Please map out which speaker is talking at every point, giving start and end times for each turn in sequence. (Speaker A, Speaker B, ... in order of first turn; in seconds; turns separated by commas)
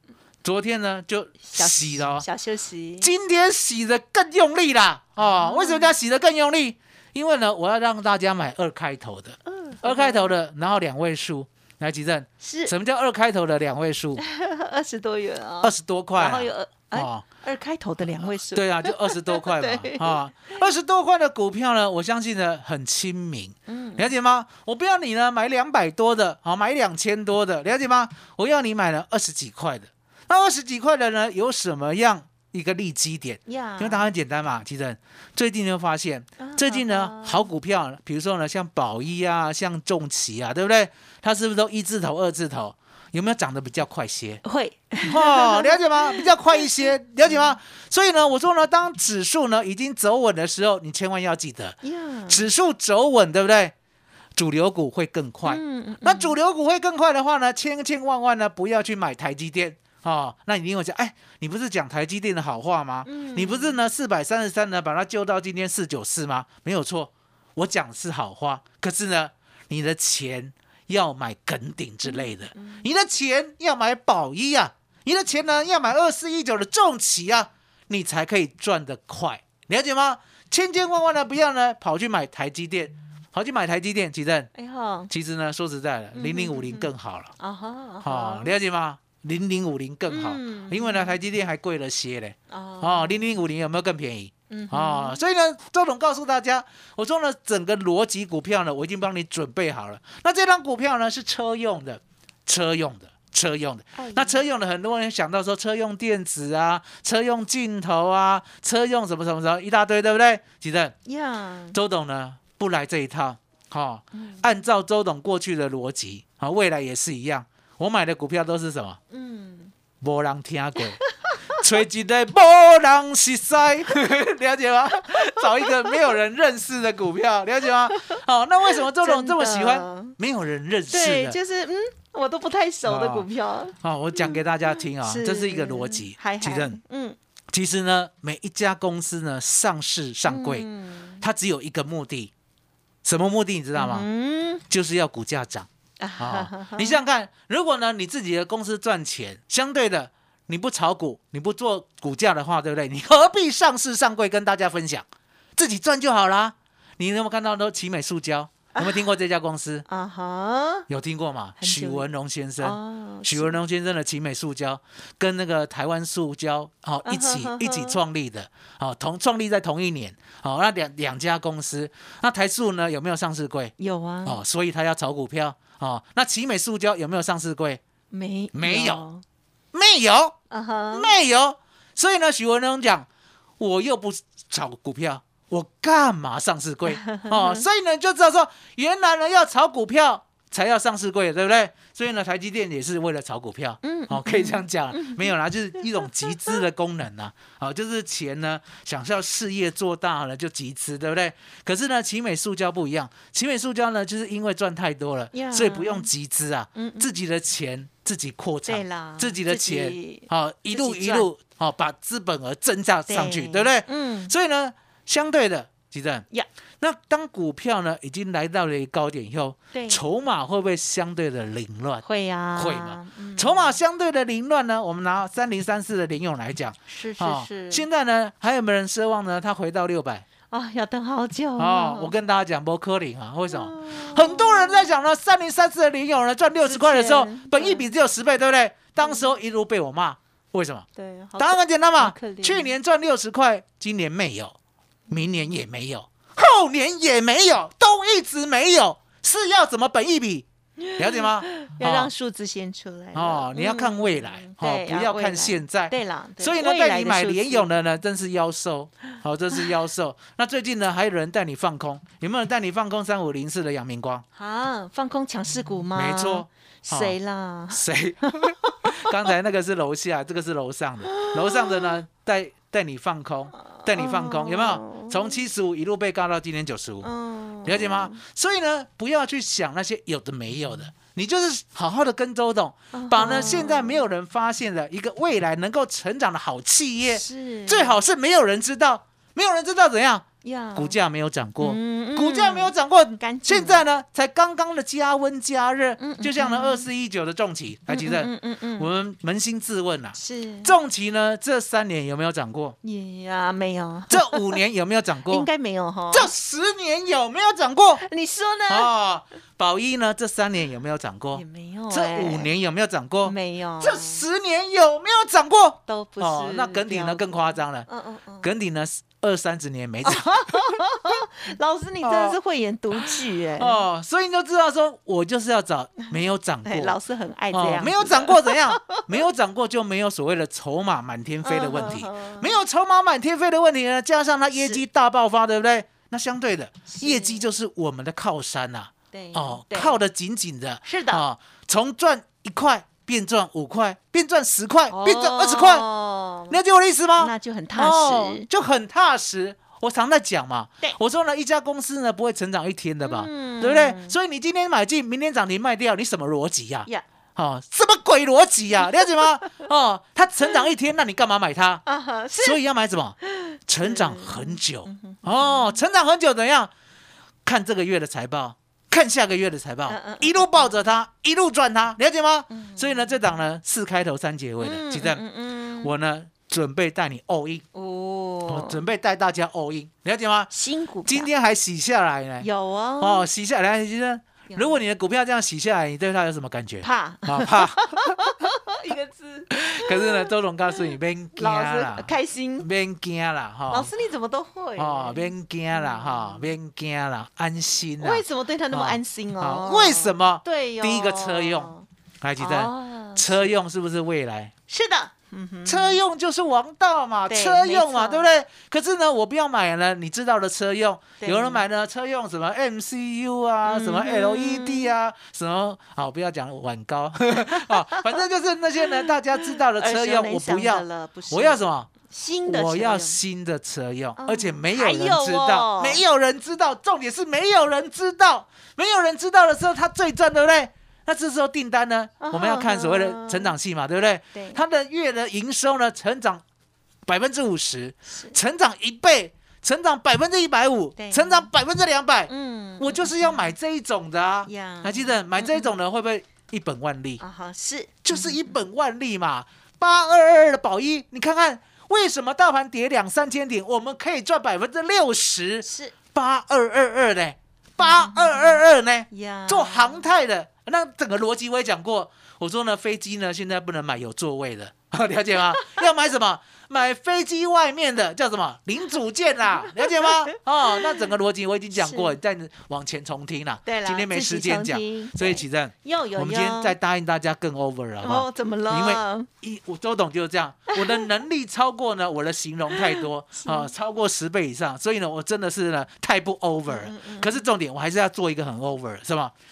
Speaker A: 0.4-2.2, Speaker B: 1.4-3.1, Speaker A: 3.0-14.2, Speaker B: 5.2-5.9, Speaker B: 9.5-10.3, Speaker B: 12.4-12.7, Speaker B: 14.2-20.6, Speaker A: 15.6-17.3, Speaker A: 18.2-44.4, Speaker B: 23.7-24.1, Speaker B: 33.5-34.1, Speaker B: 36.4-37.5, Speaker B: 44.4-46.6, Speaker A: 45.0-51.8, Speaker B: 47.2-47.6, Speaker B: 51.8-52.5, Speaker A: 52.3-53.7, Speaker A: 54.4-84.5, Speaker B: 55.5-56.3, Speaker B: 63.0-63.8, Speaker B: 72.0-72.8, Speaker B: 84.5-85.1, Speaker A: 85.1-87.3, Speaker B: 86.1-88.6, Speaker A: 88.0-110.9, Speaker B: 90.1-91.2, Speaker B: 92.5-93.3, Speaker B: 94.5-95.2, Speaker B: 104.0-104.4, Speaker B: 111.1-111.8, Speaker A: 111.7-119.0, Speaker B: 114.2-114.5, Speaker B: 119.1-119.7, Speaker A: 120.0-121.0, Speaker B: 121.0-121.6, Speaker A: 121.5-131.4, Speaker B: 125.7-125.9, Speaker B: 128.7-130.2, Speaker B: 130.9-134.4, Speaker A: 132.8-133.3, Speaker A: 133.8-136.8, Speaker B: 135.0-137.2, Speaker A: 137.5-140.7, Speaker B: 140.3-141.2, Speaker A: 141.2-142.3, Speaker A: 143.0-144.1, Speaker B: 143.8-144.6, Speaker A: 144.7-145.7, Speaker B: 146.0-147.0, Speaker A: 146.2-159.8, Speaker B: 158.7-159.0, Speaker B: 159.9-160.9, Speaker A: 160.9-173.7, Speaker B: 161.6-162.1, Speaker B: 162.6-163.6, Speaker B: 167.1-168.0, Speaker B: 173.8-174.4, Speaker A: 174.2-177.8, Speaker B: 178.1-179.2, Speaker A: 178.5-179.0, Speaker A: 179.7-180.4, Speaker B: 180.5-181.1, Speaker A: 180.9-183.1, Speaker A: 183.6-216.2, Speaker B: 186.9-187.6, Speaker B: 193.8-195.3, Speaker B: 205.3-206.1, Speaker B: 206.8-207.1, Speaker B: 208.7-211.3, Speaker B: 213.1-214.3, Speaker A: 216.8-222.0, Speaker B: 219.7-220.0, Speaker B: 222.0-223.8, Speaker A: 222.6-230.2, Speaker B: 226.9-227.8, Speaker B: 230.5-232.1, Speaker A: 231.6-240.9, Speaker B: 233.5-234.9, Speaker B: 236.6-237.9, Speaker B: 239.0-239.3, Speaker B: 240.9-242.7, Speaker A: 241.4-244.6, Speaker B: 245.1-245.4, Speaker A: 245.1-252.1, Speaker B: 250.8-257.7, Speaker A: 253.1-264.2, Speaker B: 264.4-269.1, Speaker A: 265.9-267.2, Speaker A: 267.7-277.1, Speaker B: 271.1-271.9, Speaker B: 273.7-275.4, Speaker B: 277.0-278.2, Speaker A: 277.6-302.8, Speaker B: 282.9-284.0, Speaker B: 287.1-288.0, Speaker B: 290.4-291.0, Speaker B: 291.6-293.8, Speaker B: 296.0-296.9, Speaker B: 297.9-298.9, Speaker B: 300.1-300.7, Speaker B: 302.8-304.6, Speaker A: 304.1-305.5, Speaker B: 305.3-306.3, Speaker A: 306.1-308.0, Speaker B: 308.0-308.9, Speaker A: 308.7-317.9, Speaker B: 311.3-312.5, Speaker B: 313.2-314.2, Speaker B: 315.9-318.5, Speaker A: 318.4-320.4, Speaker B: 320.0-323.8, Speaker A: 322.0-322.4, Speaker A: 322.9-327.0, Speaker B: 326.6-329.0, Speaker A: 327.5-345.9, Speaker B: 331.4-332.6, Speaker B: 336.9-337.4, Speaker B: 339.1-340.0, Speaker B: 340.8-341.2, Speaker B: 344.9-346.6, Speaker A: 346.5-361.8, Speaker B: 347.2-348.5, Speaker B: 353.1-354.1, Speaker B: 361.9-362.6, Speaker A: 362.4-366.7, Speaker B: 363.4-365.8, Speaker A: 367.4-375.2, Speaker B: 369.9-370.8, Speaker B: 372.5-373.1, Speaker B: 374.6-375.9, Speaker A: 375.8-377.6, Speaker B: 377.7-378.8, Speaker A: 378.5-380.5, Speaker B: 380.5-381.3, Speaker A: 381.1-382.5, Speaker B: 382.4-383.3, Speaker A: 383.0-388.2, Speaker B: 384.5-384.8, Speaker B: 386.8-390.3, Speaker A: 389.5-393.9, Speaker B: 391.4-392.7, Speaker B: 393.7-396.5, Speaker A: 394.8-404.5, Speaker B: 398.0-401.9, Speaker B: 402.4-403.6, Speaker B: 404.7-406.0, Speaker A: 405.7-421.9, Speaker B: 407.3-408.3, Speaker B: 411.2-411.6, Speaker B: 413.6-414.9, Speaker B: 419.6-423.2, Speaker A: 422.5-436.4, Speaker B: 424.2-426.0, Speaker B: 432.2-433.5, Speaker B: 434.3-434.6, Speaker A: 437.1-447.2, Speaker B: 438.1-438.4, Speaker B: 441.0-441.5, Speaker B: 442.3-443.5, Speaker B: 444.5-445.7, Speaker B: 447.2-448.5, Speaker A: 448.0-489.3, Speaker B: 455.6-455.9, Speaker B: 457.8-460.1, Speaker B: 471.8-472.1, Speaker B: 473.6-476.8, Speaker B: 478.0-479.3, Speaker B: 482.9-483.7, Speaker B: 486.7-487.4